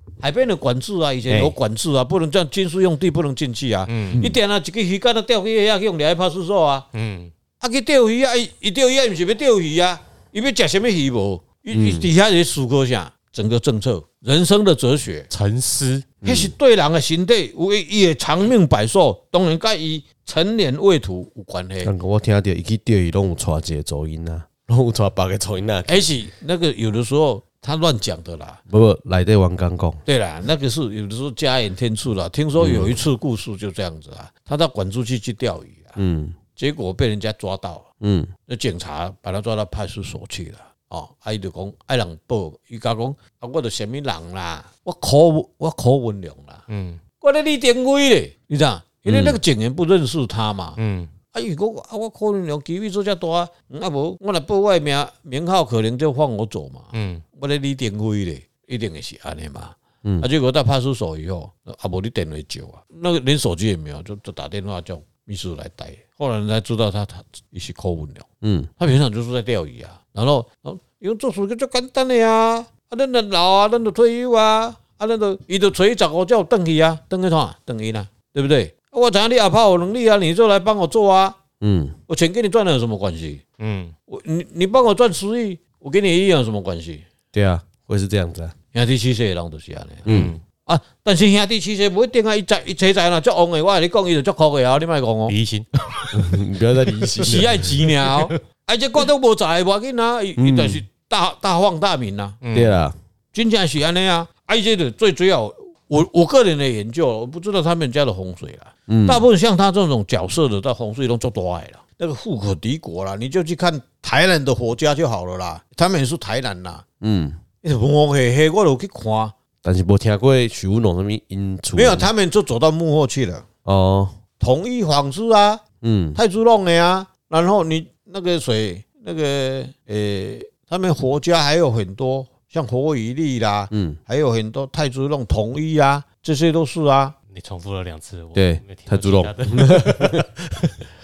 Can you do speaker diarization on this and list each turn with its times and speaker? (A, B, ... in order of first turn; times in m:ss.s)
0:00.2-0:06.8 A
0:01.3-0:01.6 B
0:03.9-0:04.2 C
0:04.1-0:04.4 B
0:06.9-0:07.3 C
0:07.6-0:15.3 A
0:11.7-0:12.1 B
0:15.3-0:16.1 C
0:16.2-0:16.5 B
0:16.2-0:21.9 A
0:21.8-0:26.1 B
0:25.8-0:28.6 A
0:28.7-0:30.0 B
0:30.0-0:36.0 A
0:32.6-0:32.9 B
0:36.0-0:36.4 B
0:36.6-0:37.9 A
0:38.0-0:38.3 B
0:38.5-0:46.6 A
0:46.7-0:47.0 C
0:47.2-0:50.8 A
0:49.0-0:49.4 B
0:50.8-0:51.1 C
0:51.3-1:08.2 A
0:56.9-0:57.2 C
1:08.4-1:08.7 B
1:08.8-1:21.4 A
1:21.6-1:22.0 B
1:22.1-1:23.4 A
1:23.6-1:23.9 C
1:24.1-1:27.0 A
1:27.3-1:28.5 B
1:28.7-1:35.3 A
1:30.0-1:30.3 B
1:30.1-1:30.4 C
1:35.3-1:35.7 C
1:36.1-1:37.7 B
1:37.0-1:38.3 C
1:37.2-1:42.4 A
1:40.4-1:40.8 B
1:42.4-1:42.8 C
1:42.5-1:43.0 B
1:43.3-1:56.8 A
1:48.9-1:49.2 B
1:57.0-1:57.4 B
1:57.6-1:59.3 A
1:59.6-2:02.1 B
2:01.7-2:03.5 A
2:03.6-2:04.2 B
2:04.4-2:05.6 A
2:05.8-2:06.2 B
2:06.1-2:17.1 A
2:13.7-2:14.0 B
2:17.3-2:20.7 C
2:18.3-2:20.3 B